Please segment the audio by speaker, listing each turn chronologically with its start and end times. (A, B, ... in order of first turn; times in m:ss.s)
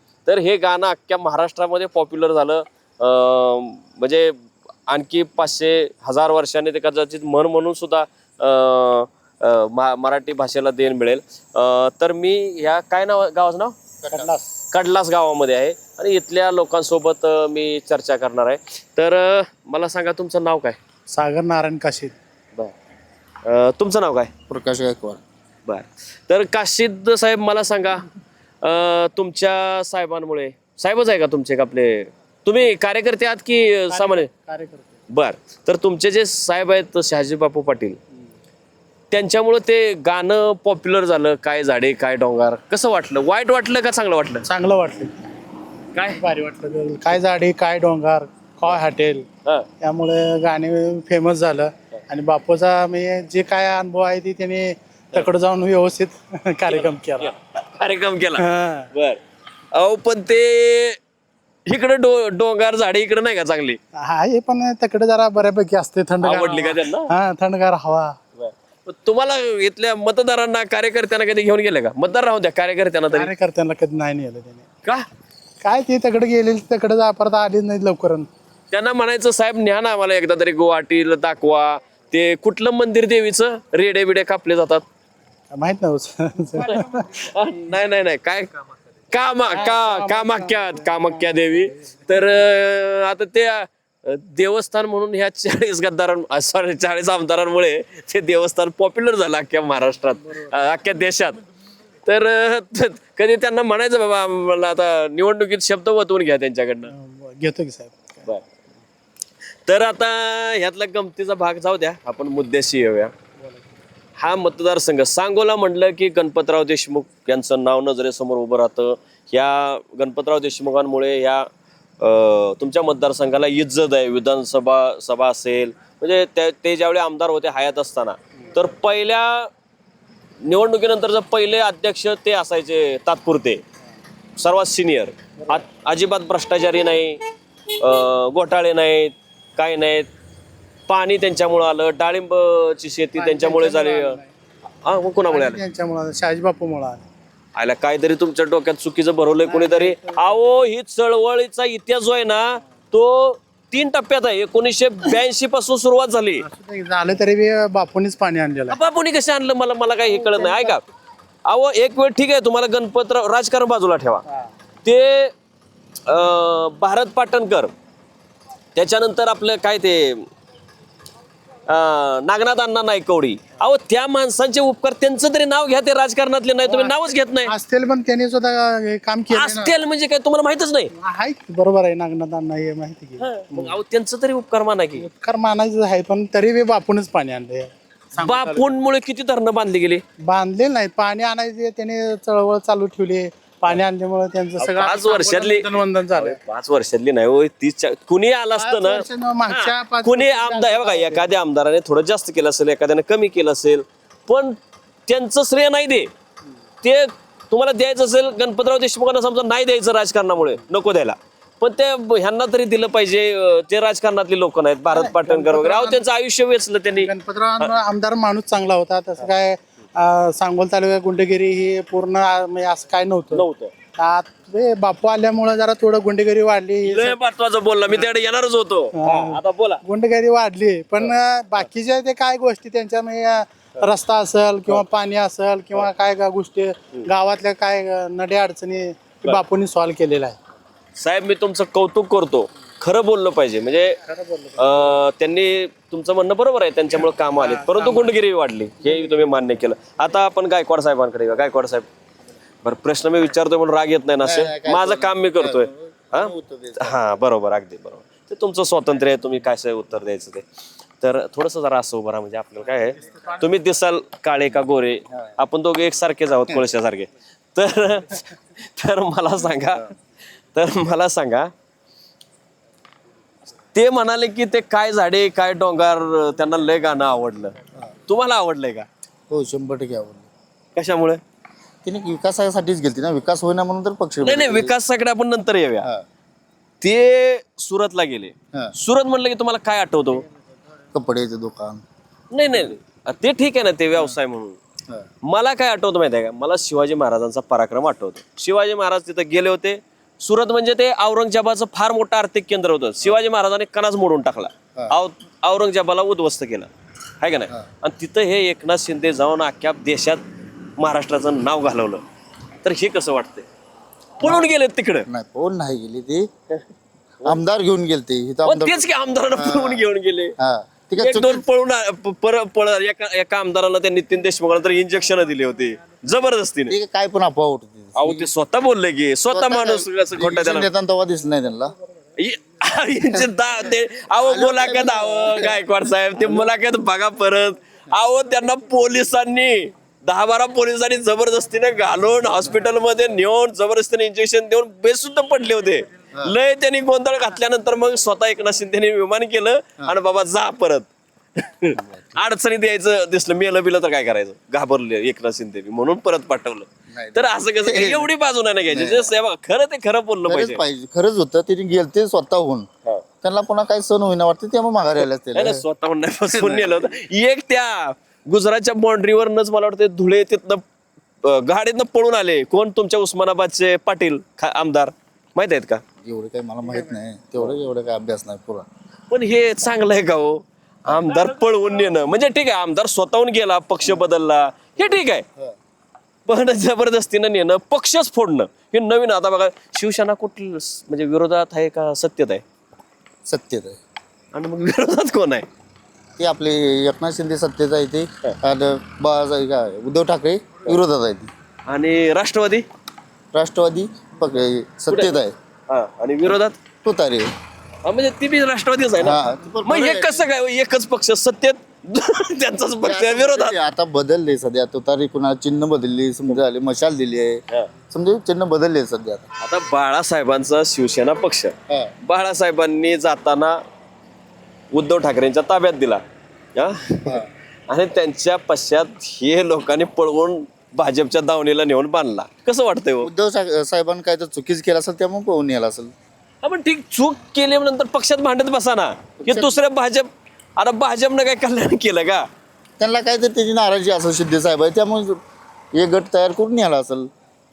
0:00.3-0:04.4 A
0:04.9-0:13.8 A
0:14.0-0:14.3 B
0:14.1-0:14.4 C
0:14.7-0:20.8 A
0:21.1-0:22.1 C
0:23.4-0:24.3 A
0:24.5-0:25.2 B
0:25.7-0:28.1 A
0:28.6-0:34.3 A
0:33.9-0:34.9 C
0:35.1-0:38.0 A
0:39.1-0:44.4 A
0:44.5-0:45.1 C
0:46.1-0:49.3 C
0:49.8-0:57.3 C
0:56.7-0:59.2 A
0:58.4-0:58.9 C
0:59.7-1:01.0 A
1:01.7-1:03.8 A
1:04.0-1:08.2 C
1:06.2-1:07.1 A
1:08.4-1:13.3 A
1:13.1-1:14.7 C
1:15.6-1:18.3 C
1:18.7-1:24.8 A
1:25.5-1:27.3 C
1:26.6-1:28.6 A
1:29.1-1:41.4 A
1:29.5-1:31.2 C
1:42.1-1:46.9 A
1:46.9-1:48.3 C
1:49.7-1:53.1 A
1:54.2-2:01.5 A
2:02.0-2:09.5 A
2:10.4-2:13.6 A
2:14.4-2:17.2 A
2:17.8-2:20.1 A
2:20.9-2:24.2 A
2:23.2-2:24.3 C
2:24.8-2:25.6 A
2:25.2-2:27.0 C
2:27.6-2:36.5 A
2:29.5-2:30.2 C
2:36.4-2:38.8 C
2:38.7-2:40.8 A
2:40.2-2:40.7 C
2:41.5-2:44.2 A
2:44.8-2:45.3 A
2:46.1-2:47.7 A
2:48.8-2:50.3 A
2:51.7-2:57.5 A
2:56.7-2:59.7 C
2:59.3-3:00.9 A
3:01.0-3:03.8 C
3:03.2-3:05.1 A
3:05.0-3:08.7 C
3:08.2-3:10.0 A
3:10.2-3:16.4 C
3:14.6-3:24.6 A
3:18.6-3:21.3 C
3:25.1-3:26.1 A
3:26.8-3:37.7 A
3:34.9-3:36.0 C
3:36.9-3:43.5 C
3:43.3-3:43.7 A
3:44.0-3:47.2 C
3:46.8-3:49.8 A
3:49.0-4:00.4 C
4:01.0-4:04.0 A
4:04.1-4:04.7 C
4:04.6-4:11.9 A
4:07.4-4:08.1 C
4:12.6-4:20.4 A
4:14.2-4:17.0 B
4:21.0-4:30.0 A
4:30.5-4:31.5 A
4:33.7-4:37.6 A
4:38.1-4:38.9 A
4:39.3-4:40.3 B
4:40.8-4:41.2 A
4:41.8-4:44.7 B
4:44.2-4:45.9 A
4:46.8-4:50.2 A
4:50.9-4:51.8 B
4:52.3-4:54.6 A
4:55.2-5:06.7 A
5:07.2-5:10.2 A
5:10.8-5:12.0 A
5:12.6-5:13.5 A
5:14.2-5:15.1 A
5:15.1-5:16.3 B
5:17.2-5:18.8 B
5:18.4-5:20.4 A
5:19.4-5:19.8 B
5:20.4-5:21.4 B
5:21.0-5:26.8 A
5:26.7-5:28.3 B
5:28.0-5:30.7 A
5:29.3-5:31.7 B
5:32.2-6:00.6 A
5:34.3-5:35.6 B
5:36.2-5:36.5 B
5:51.8-5:52.0 B
5:56.9-5:58.1 B
5:58.7-5:59.1 B
6:00.3-6:02.7 B
6:03.2-6:05.6 B
6:05.3-6:10.6 A
6:06.3-6:06.8 B
6:11.2-6:15.8 A
6:16.0-6:18.7 B
6:19.1-6:25.2 A
6:26.3-6:32.4 A
6:33.3-6:33.8 B
6:34.3-6:35.5 A
6:36.2-6:41.3 B
6:41.7-6:42.7 A
6:43.3-6:45.3 B
6:44.9-6:45.2 A
6:45.7-6:46.6 A
6:46.8-6:47.3 B
6:47.8-6:53.6 A
6:49.0-6:50.2 B
6:52.8-6:59.3 B
6:59.4-7:03.6 A
7:04.7-7:06.0 A
7:06.6-7:13.1 A
7:13.0-7:15.9 B
7:16.4-7:22.3 A
7:19.2-7:19.5 B
7:22.8-7:25.2 B
7:25.7-7:27.1 B